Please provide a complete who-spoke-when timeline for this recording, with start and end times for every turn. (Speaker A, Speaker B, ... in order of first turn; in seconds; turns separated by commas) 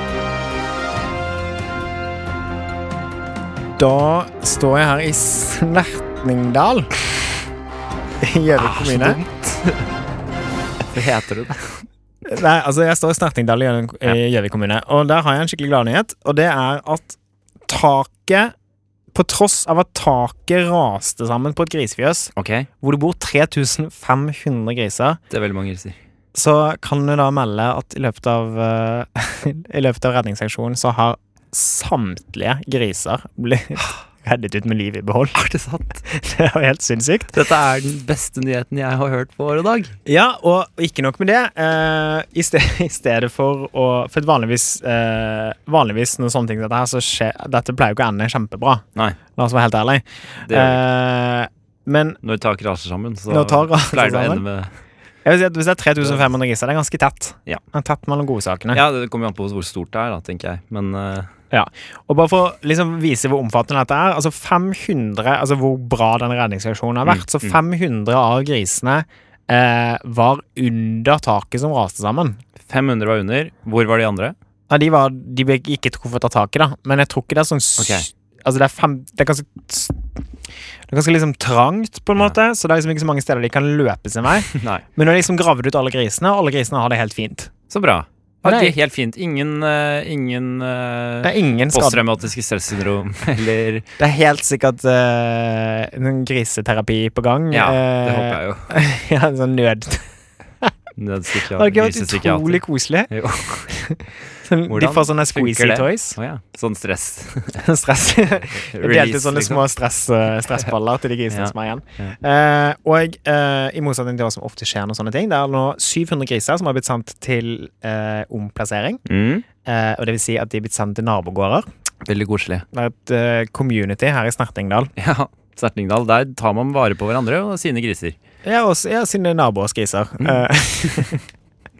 Speaker A: 3.8-6.9, Speaker A: 8.2-9.2, Speaker B: 8.5-9.8, Speaker B: 10.9-11.8, Speaker A: 12.2-18.5, Speaker A: 19.1-25.2, Speaker B: 22.4-22.7, Speaker B: 25.3-26.0, Speaker A: 26.3-35.4, Speaker B: 35.3-36.0, Speaker A: 36.0-37.3, Speaker B: 37.3-40.0, Speaker A: 40.0-48.8, Speaker A: 49.4-52.2, Speaker B: 50.4-50.8, Speaker B: 52.2-54.7, Speaker A: 53.3-54.4, Speaker A: 55.2-58.8, Speaker B: 58.7-61.3, Speaker A: 61.5-72.4, Speaker B: 67.0-67.5, Speaker B: 72.6-74.3, Speaker A: 74.7-80.0, Speaker B: 77.8-78.0, Speaker A: 80.9-87.5, Speaker B: 84.5-84.8, Speaker B: 87.7-93.9, Speaker A: 88.4-88.7, Speaker A: 91.2-92.0, Speaker A: 94.0-100.1, Speaker B: 97.5-98.7, Speaker B: 101.0-103.7, Speaker A: 101.5-106.2, Speaker B: 104.7-107.6, Speaker A: 107.5-119.0, Speaker B: 108.5-109.6, Speaker B: 111.3-112.1, Speaker B: 119.0-119.5, Speaker A: 119.6-121.7, Speaker B: 122.0-122.7, Speaker A: 122.7-124.9, Speaker B: 125.0-128.2, Speaker A: 128.4-131.2